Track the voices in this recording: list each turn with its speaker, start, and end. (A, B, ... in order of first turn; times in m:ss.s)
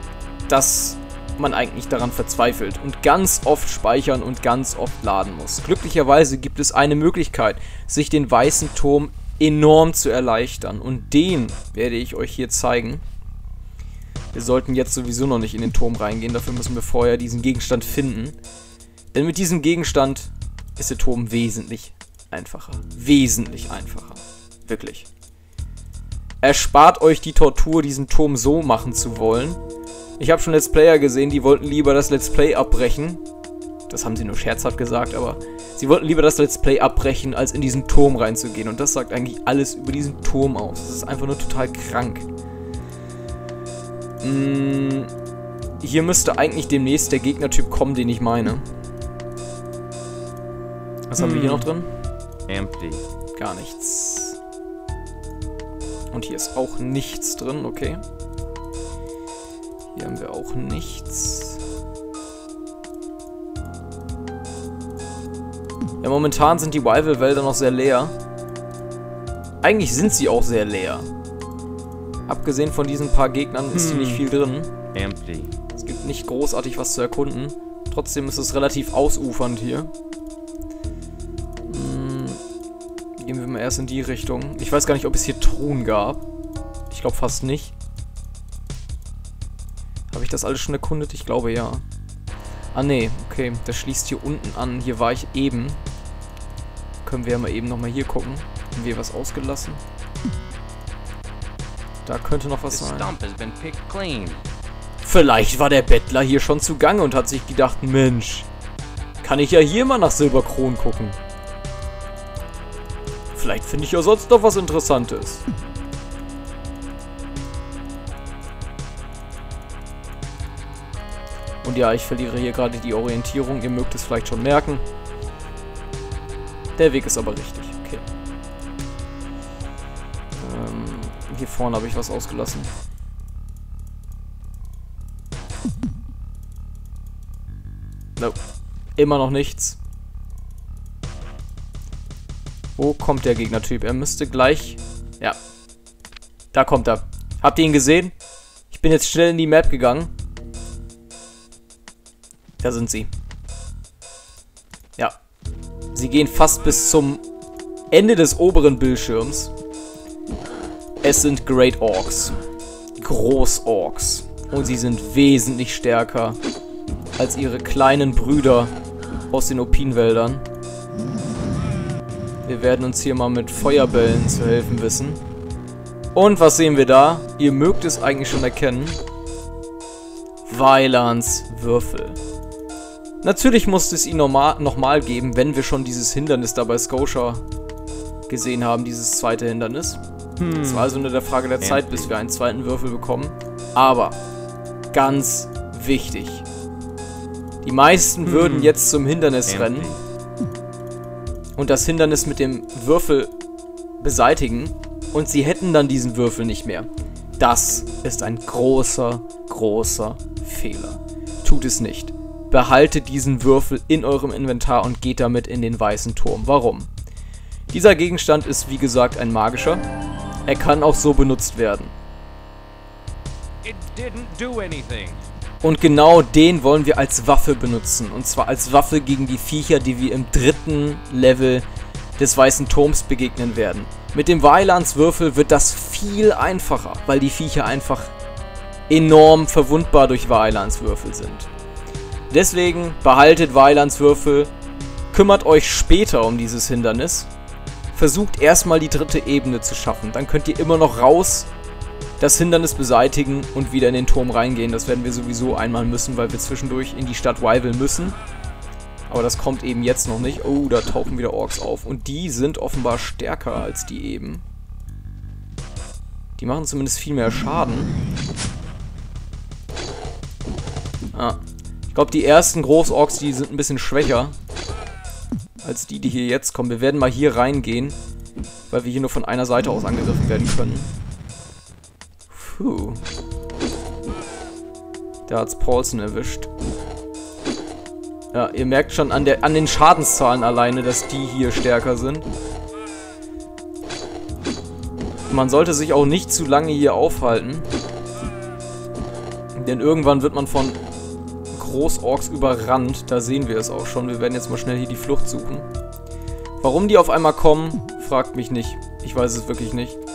0:00.5-0:13.0 A
0:14.3-0:18.4 A
0:19.1-0:25.1 A
0:26.4-0:29.6 A
0:30.2-0:33.2 A
0:33.9-0:42.3 A
0:44.2-0:45.1 A
0:45.8-0:48.7 A
0:51.1-0:51.9 A
0:51.2-0:51.7 B
0:52.5-0:53.0 B
0:53.4-0:54.4 A
0:56.1-0:58.0 A
1:00.0-1:01.6 A
1:06.0-1:08.2 A
1:09.6-1:11.1 A
1:12.3-1:14.7 A
1:13.7-1:14.2 B
1:14.9-1:15.5 B
1:15.7-1:19.9 A
1:21.7-1:22.4 A
1:23.2-1:26.2 A
1:26.9-1:27.8 A
1:30.1-1:31.8 A
1:32.7-1:35.8 A
1:37.0-1:39.8 A
1:42.0-1:43.1 A
1:42.7-1:44.4 B
1:45.0-1:48.5 A
1:49.2-1:51.2 A
1:53.3-1:55.4 A
2:01.6-2:04.8 A
2:06.8-2:08.0 A
2:10.3-2:12.7 A
2:19.0-2:19.8 A
2:22.8-2:25.4 A
2:26.5-2:28.1 A
2:28.7-2:30.1 A
2:32.6-2:33.1 A
2:35.9-2:37.2 A
2:37.9-2:39.5 A
2:41.0-2:42.4 A
2:43.0-2:46.4 A
2:47.2-2:48.7 A
2:49.3-2:50.4 A
2:52.4-2:55.2 A
2:56.1-2:59.0 A
3:00.5-3:02.2 A
3:03.2-3:07.4 A
3:08.3-3:10.0 A
3:10.4-3:10.9 B
3:10.5-3:14.2 A
3:11.6-3:12.2 B
3:14.9-3:16.5 A
3:17.6-3:20.0 A
3:18.3-3:18.8 B
3:19.5-3:20.0 B
3:21.6-3:23.3 A
3:24.0-3:26.9 A
3:27.4-3:36.9 A
3:37.7-3:39.8 A
3:40.5-3:41.9 A
3:43.6-3:45.2 B
3:45.6-3:51.7 A
3:52.2-3:58.1 A
3:58.9-4:01.5 A
4:02.3-4:04.5 A
4:05.1-4:07.3 A
4:07.9-4:11.5 A
4:12.2-4:18.2 A
4:19.1-4:24.4 A
4:26.4-4:27.9 A
4:31.1-4:31.4 A
4:31.9-4:34.4 A
4:35.6-4:38.0 A
4:38.7-4:40.9 A
4:42.3-4:43.0 A
4:45.3-4:46.5 A
4:48.3-4:52.3 A
4:55.3-4:57.7 A
4:59.6-5:00.8 A
5:01.5-5:05.7 A
5:06.6-5:10.0 A